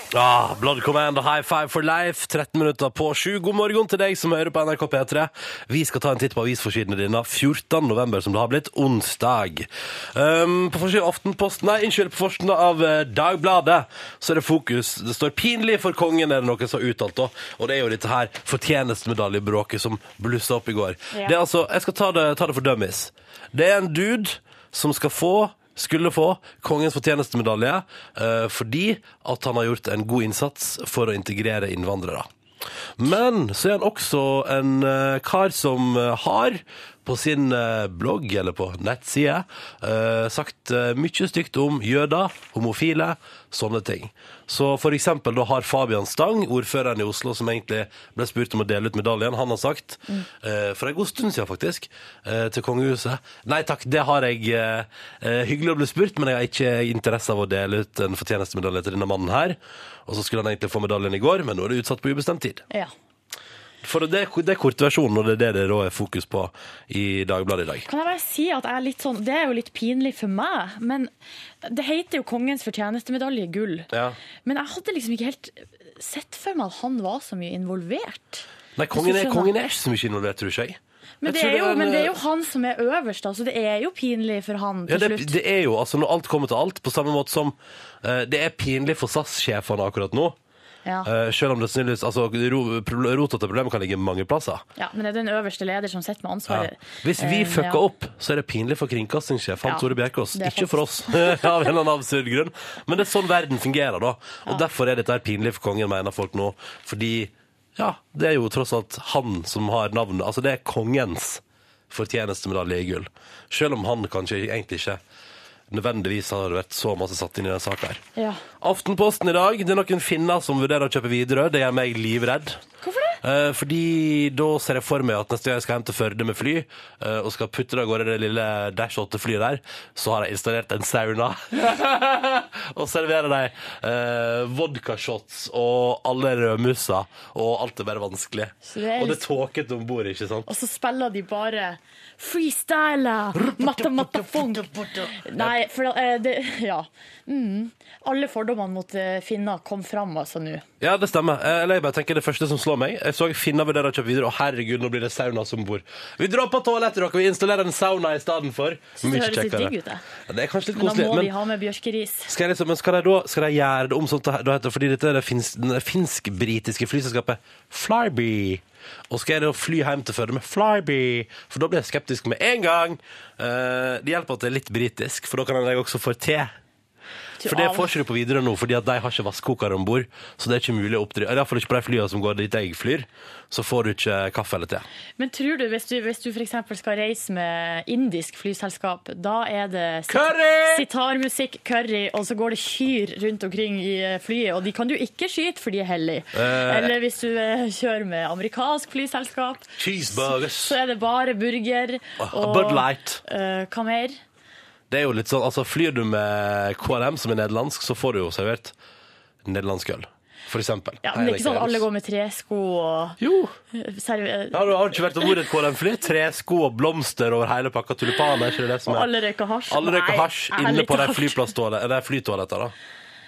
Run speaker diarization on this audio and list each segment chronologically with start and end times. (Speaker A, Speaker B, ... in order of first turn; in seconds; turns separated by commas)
Speaker A: 0.1-32.3, Speaker A: 33.0-62.6, Speaker A: 63.8-67.9, Speaker B: 67.8-71.1, Speaker B: 71.6-73.9, Speaker A: 73.9-74.2, Speaker B: 74.4-79.5, Speaker A: 78.8-82.2, Speaker B: 81.2-85.3, Speaker A: 84.9-90.3, Speaker A: 91.0-94.6, Speaker B: 94.8-97.8, Speaker A: 96.5-115.0, Speaker B: 99.6-101.5, Speaker A: 115.7-118.0, Speaker A: 118.6-122.6, Speaker B: 122.8-123.2, Speaker A: 123.2-140.5, Speaker B: 138.7-139.2, Speaker B: 140.5-150.6, Speaker A: 143.4-145.6, Speaker A: 150.8-159.7, Speaker B: 159.0-160.0, Speaker A: 160.2-161.3, Speaker B: 160.8-162.3, Speaker A: 162.3-176.5, Speaker B: 177.4-177.9, Speaker A: 177.4-184.8, Speaker B: 185.2-204.1, Speaker A: 190.1-190.9, Speaker A: 196.3-197.0, Speaker A: 199.8-200.8, Speaker A: 202.2-203.2, Speaker A: 204.9-208.7, Speaker A: 209.4-211.9, Speaker B: 211.0-213.2, Speaker A: 213.2-213.5, Speaker B: 213.8-214.6, Speaker A: 214.5-219.2, Speaker B: 218.9-221.4, Speaker A: 219.7-222.7